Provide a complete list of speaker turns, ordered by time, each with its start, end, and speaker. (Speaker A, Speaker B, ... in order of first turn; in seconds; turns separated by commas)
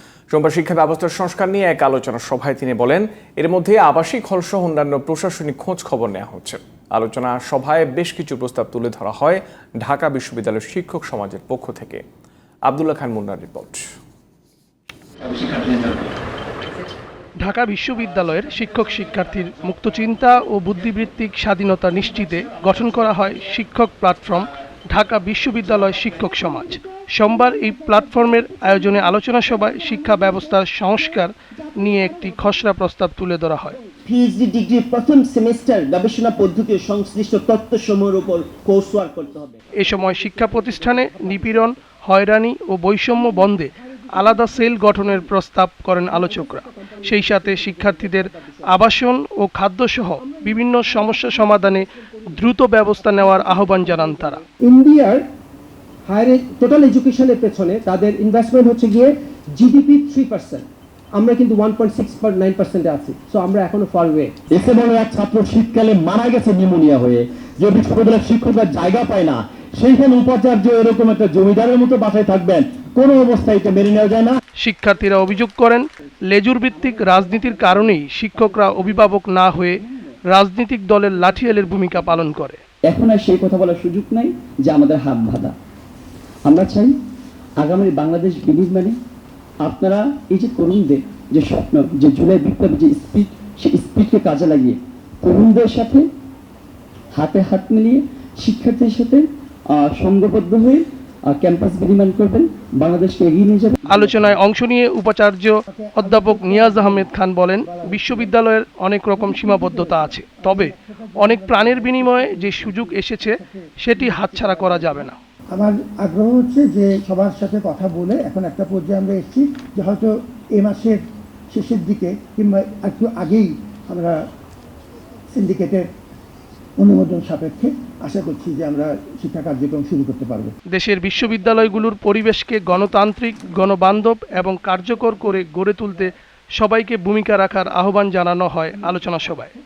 Speaker A: 0.3-12.0, Speaker A: 12.7-13.8, Speaker B: 17.4-33.8, Speaker C: 34.0-39.6, Speaker B: 39.8-54.4, Speaker D: 51.0-51.6, Speaker D: 54.6-55.3, Speaker D: 56.0-64.3, Speaker E: 64.5-74.4, Speaker B: 74.6-82.6, Speaker F: 82.9-85.5, Speaker F: 86.4-87.0, Speaker F: 87.6-89.0, Speaker F: 89.6-96.0, Speaker F: 97.1-104.2, Speaker B: 103.9-115.2, Speaker G: 105.7-108.3, Speaker G: 109.1-124.2, Speaker G: 125.3-125.9, Speaker G: 126.8-130.5, Speaker B: 130.7-139.5